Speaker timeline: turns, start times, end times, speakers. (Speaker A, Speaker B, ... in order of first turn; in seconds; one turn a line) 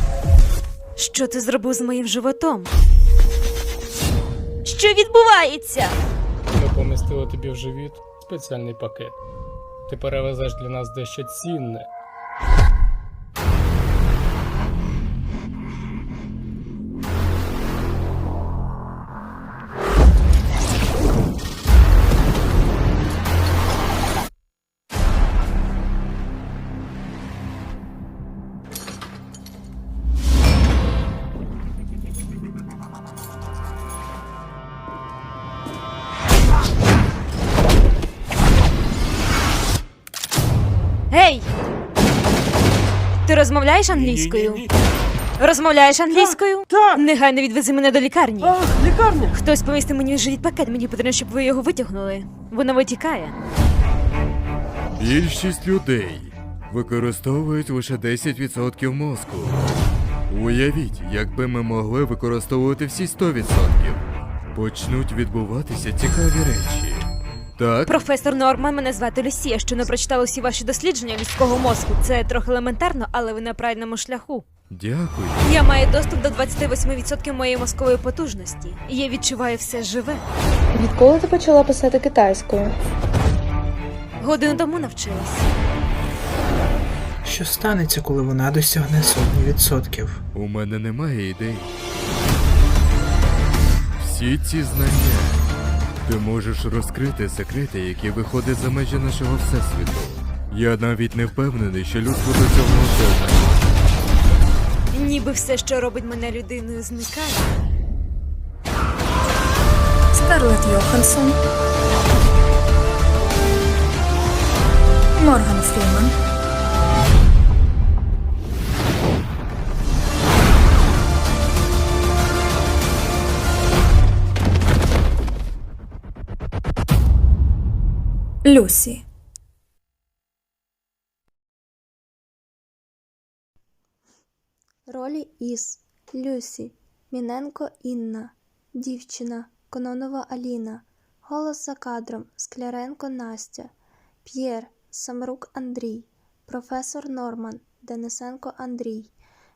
Speaker A: 1.0-2.7
Speaker A: 4.6-6.0
Speaker B: 6.5-9.2
Speaker B: 9.9-11.9
Speaker A: 41.1-41.5
Speaker A: 43.2-44.7
Speaker A: 45.4-53.4
Speaker C: 55.0-59.7
Speaker C: 60.3-67.9
Speaker A: 67.9-74.5
Speaker C: 74.7-75.5
Speaker A: 75.4-80.2
Speaker D: 80.8-82.7
Speaker A: 84.2-85.5
Speaker E: 87.2-90.2
Speaker C: 90.3-91.7
Speaker C: 94.0-95.5
Speaker C: 96.0-103.6
Speaker A: 104.9-107.5
Speaker F: 110.1-111.3
Speaker F: 115.2-116.1
Speaker F: 128.5-129.0
Speaker G: 134.9-143.7
Speaker G: 144.2-149.1